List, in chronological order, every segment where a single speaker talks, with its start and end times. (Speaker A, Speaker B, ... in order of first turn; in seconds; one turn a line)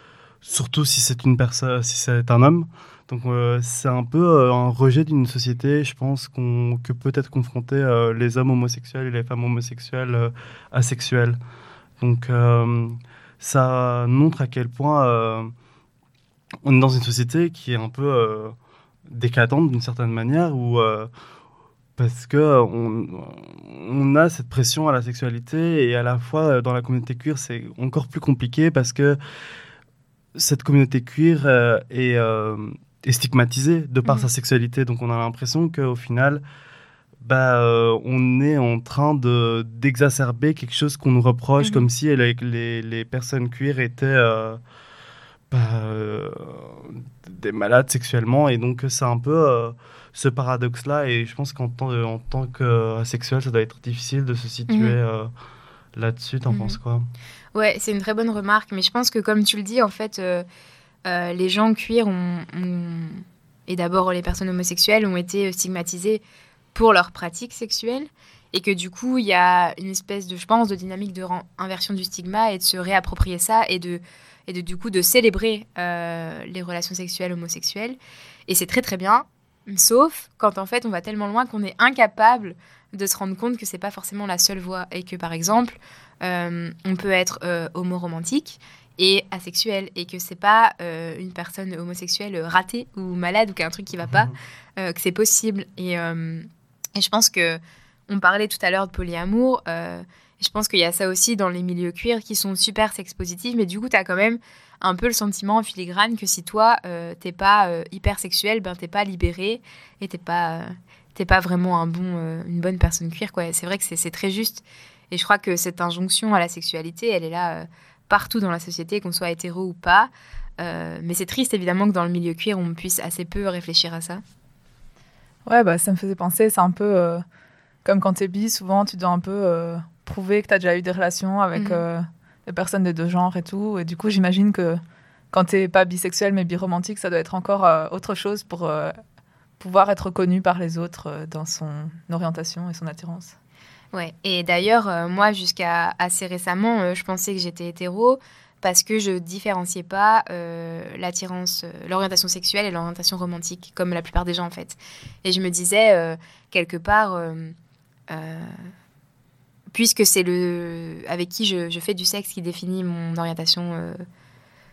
Speaker A: 0.4-11.4
Speaker A: 12.0-15.5
Speaker A: 16.6-18.5
Speaker A: 19.1-21.1
Speaker A: 22.0-29.2
Speaker A: 30.3-36.4
Speaker A: 37.2-44.6
Speaker B: 41.6-41.9
Speaker A: 45.5-55.3
Speaker B: 54.7-55.0
Speaker A: 55.9-57.1
Speaker B: 56.5-56.8
Speaker B: 57.5-60.5
Speaker B: 61.0-66.2
Speaker B: 66.7-78.0
Speaker B: 78.5-124.2
Speaker C: 125.5-127.2
Speaker C: 127.8-134.8
Speaker B: 131.5-131.8
Speaker C: 135.3-138.9
Speaker C: 139.6-143.3
Speaker B: 143.9-157.5
Speaker B: 158.1-158.7
Speaker B: 159.7-164.0